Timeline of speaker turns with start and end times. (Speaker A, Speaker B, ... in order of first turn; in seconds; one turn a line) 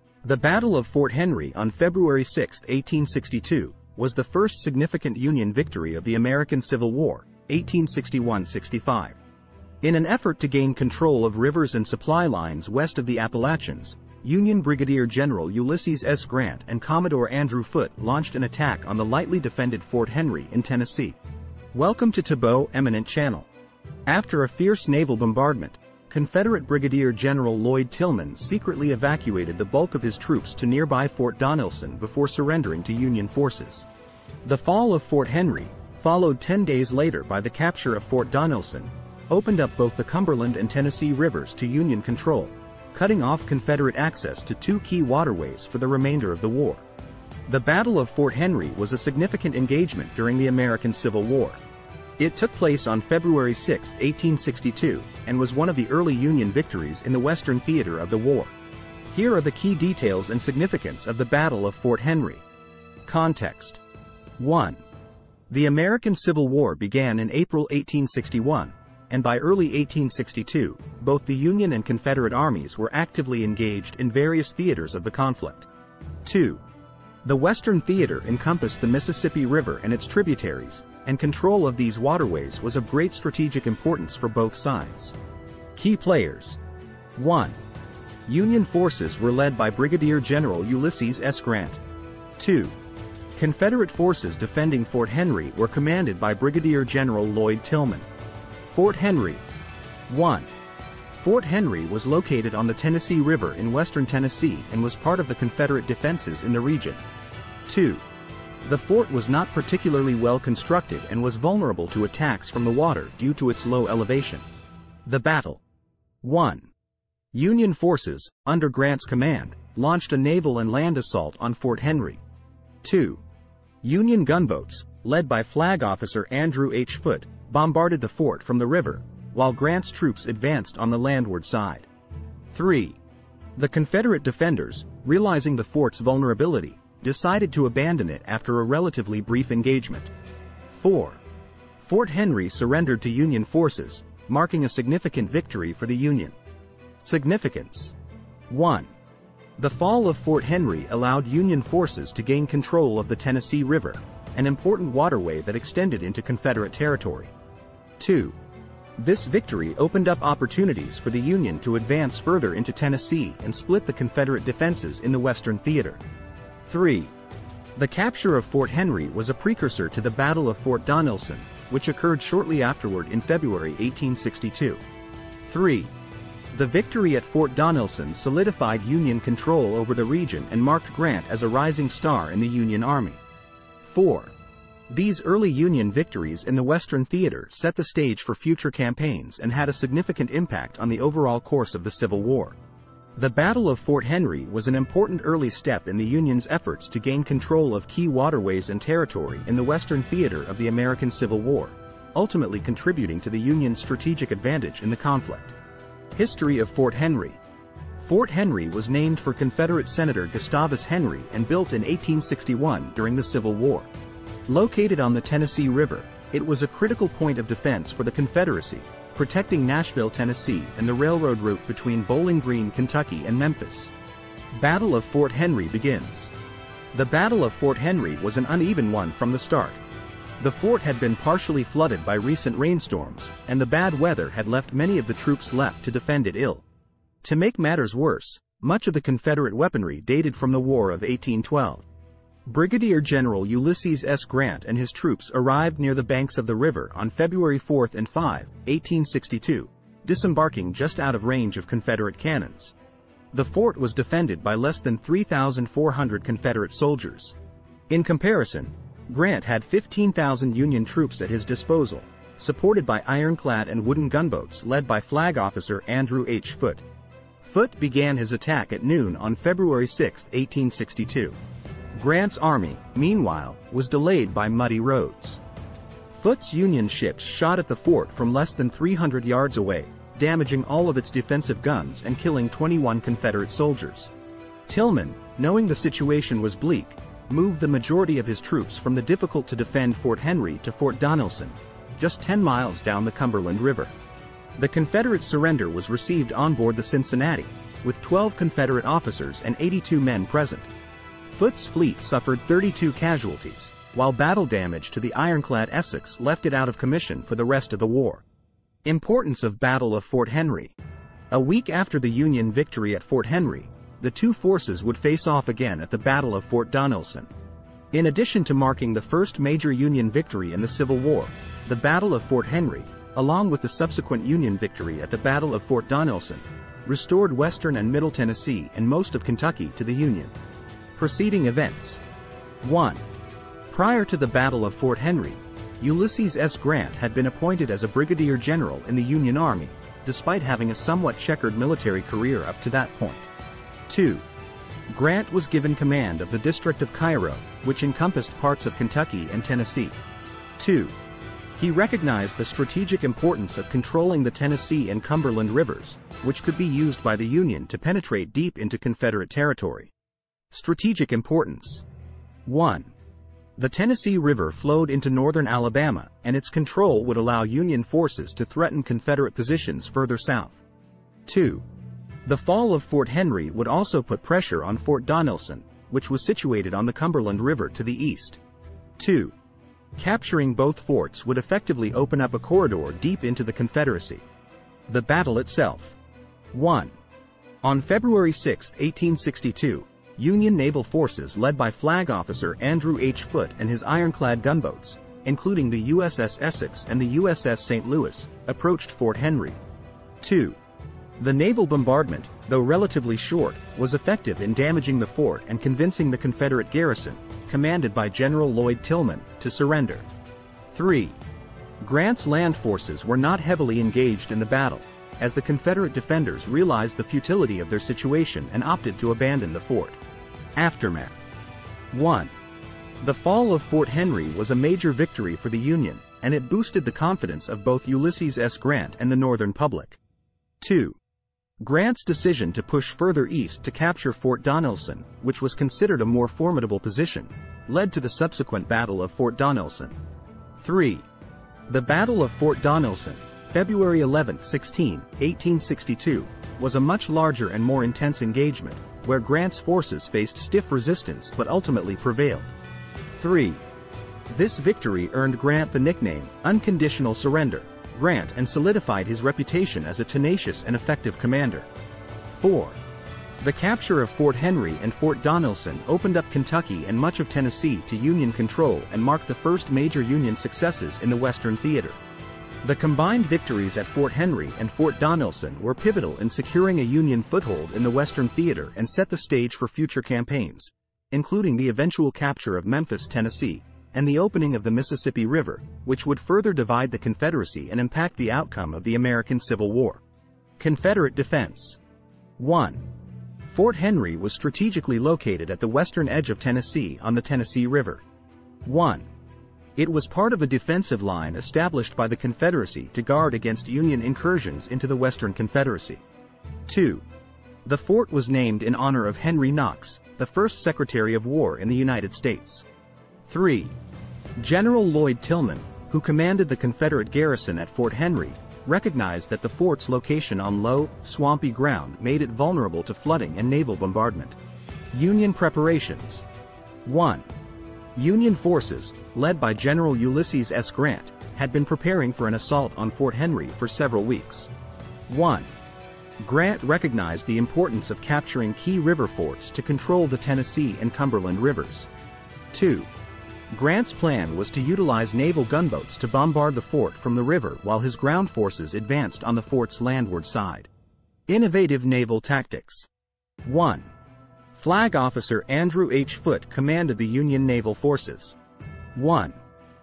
Speaker A: 0.2-9.2
Speaker A: 9.8-21.2
Speaker A: 21.7-23.5
Speaker A: 24.1-33.9
Speaker A: 34.4-46.8
Speaker A: 47.5-51.6
Speaker A: 52.2-58.5
Speaker A: 59.1-62.4
Speaker A: 63.0-63.8
Speaker A: 64.4-64.8
Speaker A: 65.5-75.7
Speaker A: 76.2-76.6
Speaker A: 77.2-85.1
Speaker A: 85.7-86.6
Speaker A: 87.2-87.6
Speaker A: 88.3-91.8
Speaker A: 92.4-92.8
Speaker A: 93.3-98.1
Speaker A: 98.7-99.4
Speaker A: 100.1-100.5
Speaker A: 101.2-107.0
Speaker A: 107.7-108.0
Speaker A: 108.6-114.5
Speaker A: 115.0-115.6
Speaker A: 116.2-116.7
Speaker A: 117.3-122.2
Speaker A: 122.8-123.2
Speaker A: 123.8-131.9
Speaker A: 132.5-133.0
Speaker A: 133.6-140.1
Speaker A: 140.7-141.2
Speaker A: 141.8-146.4
Speaker A: 147.0-147.9
Speaker A: 148.5-148.9
Speaker A: 149.6-157.3
Speaker A: 158.0-158.4
Speaker A: 159.0-166.0
Speaker A: 166.6-167.1
Speaker A: 167.8-174.8
Speaker A: 175.4-175.9
Speaker A: 176.5-183.2
Speaker A: 183.8-184.3
Speaker A: 184.9-192.6
Speaker A: 193.2-205.6
Speaker A: 206.1-207.4
Speaker A: 208.0-213.9
Speaker A: 214.5-223.9
Speaker A: 224.5-226.3
Speaker A: 226.9-229.8
Speaker A: 230.4-236.6
Speaker A: 237.2-241.8
Speaker A: 242.4-252.7
Speaker A: 253.3-257.4
Speaker A: 257.9-266.8
Speaker A: 267.4-271.4
Speaker A: 271.9-275.4
Speaker A: 276.1-284.1
Speaker A: 284.7-293.9
Speaker A: 294.6-300.7
Speaker A: 301.3-308.2
Speaker A: 308.8-310.7
Speaker A: 311.3-317.3
Speaker A: 317.9-330.3
Speaker A: 330.9-332.0
Speaker A: 332.6-333.1
Speaker A: 333.7-343.3
Speaker A: 343.9-344.2
Speaker A: 344.9-350.0
Speaker A: 350.6-350.9
Speaker A: 351.6-359.9
Speaker A: 360.5-361.9
Speaker A: 362.4-362.9
Speaker A: 363.6-370.6
Speaker A: 371.2-371.6
Speaker A: 372.2-378.4
Speaker A: 379.0-379.4
Speaker A: 380.0-384.2
Speaker A: 384.9-386.0
Speaker A: 386.5-387.0
Speaker A: 387.6-399.6
Speaker A: 400.2-400.6
Speaker A: 401.2-410.1
Speaker A: 410.7-411.2
Speaker A: 411.8-420.0
Speaker A: 420.6-421.3
Speaker A: 421.9-422.3
Speaker A: 423.0-430.0
Speaker A: 430.6-431.0
Speaker A: 431.6-440.0
Speaker A: 440.6-441.1
Speaker A: 441.7-452.5
Speaker A: 453.2-453.6
Speaker A: 454.3-461.7
Speaker A: 462.3-462.8
Speaker A: 463.4-472.0
Speaker A: 472.6-490.0
Speaker A: 490.6-491.8
Speaker A: 492.4-492.9
Speaker A: 493.5-498.0
Speaker A: 498.6-499.1
Speaker A: 499.8-506.0
Speaker A: 506.7-507.1
Speaker A: 507.6-512.6
Speaker A: 513.2-513.7
Speaker A: 514.4-524.4
Speaker A: 524.9-526.2
Speaker A: 526.8-527.3
Speaker A: 527.9-534.5
Speaker A: 535.1-535.5
Speaker A: 536.2-541.9
Speaker A: 542.5-542.9
Speaker A: 543.5-550.7
Speaker A: 551.3-552.9
Speaker A: 553.4-553.9
Speaker A: 554.5-558.4
Speaker A: 558.9-559.4